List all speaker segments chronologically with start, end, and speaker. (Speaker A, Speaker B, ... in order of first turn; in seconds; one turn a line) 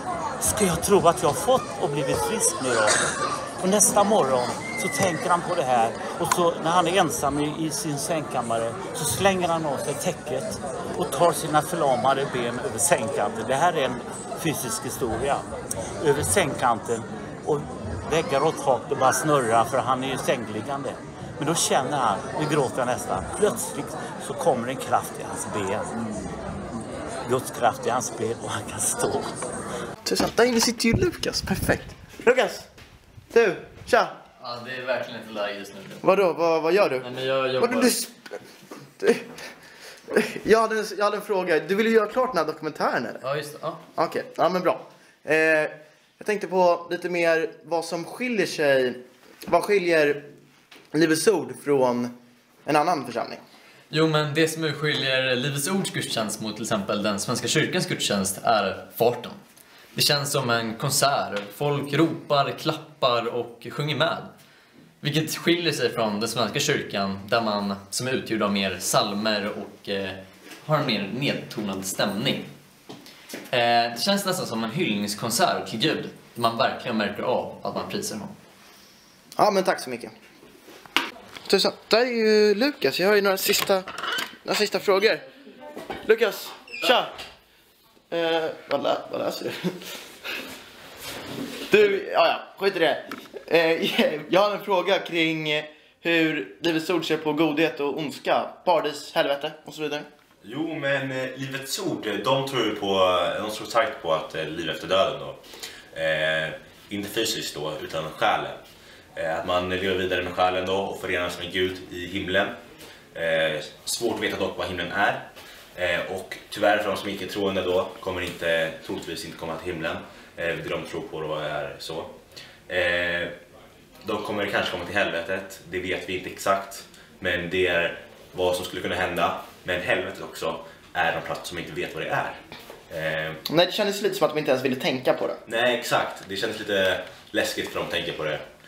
Speaker A: 0.4-3.0
Speaker A: 3.6-15.5
Speaker A: 16.0-25.9
Speaker A: 27.2-29.4
Speaker B: 30.0-32.7
Speaker B: 33.3-34.2
Speaker C: 34.4-36.0
Speaker B: 36.0-37.1
Speaker C: 37.0-38.0
Speaker B: 37.6-38.1
Speaker B: 39.0-39.3
Speaker B: 40.1-43.2
Speaker C: 43.2-43.8
Speaker B: 44.0-50.3
Speaker B: 50.9-52.1
Speaker B: 52.6-53.4
Speaker C: 53.9-59.4
Speaker C: 59.9-64.3
Speaker C: 65.0-72.5
Speaker C: 73.5-78.3
Speaker B: 79.3-80.1
Speaker B: 81.5-83.8
Speaker B: 84.4-85.2
Speaker B: 86.0-87.1
Speaker B: 88.1-90.0
Speaker B: 91.7-100.1
Speaker D: 100.4-105.4
Speaker D: 105.9-108.6
Speaker D: 109.1-112.5
Speaker D: 113.1-122.2
Speaker D: 122.7-123.3
Speaker D: 124.0-133.4
Speaker B: 133.5-135.4
Speaker D: 135.4-138.4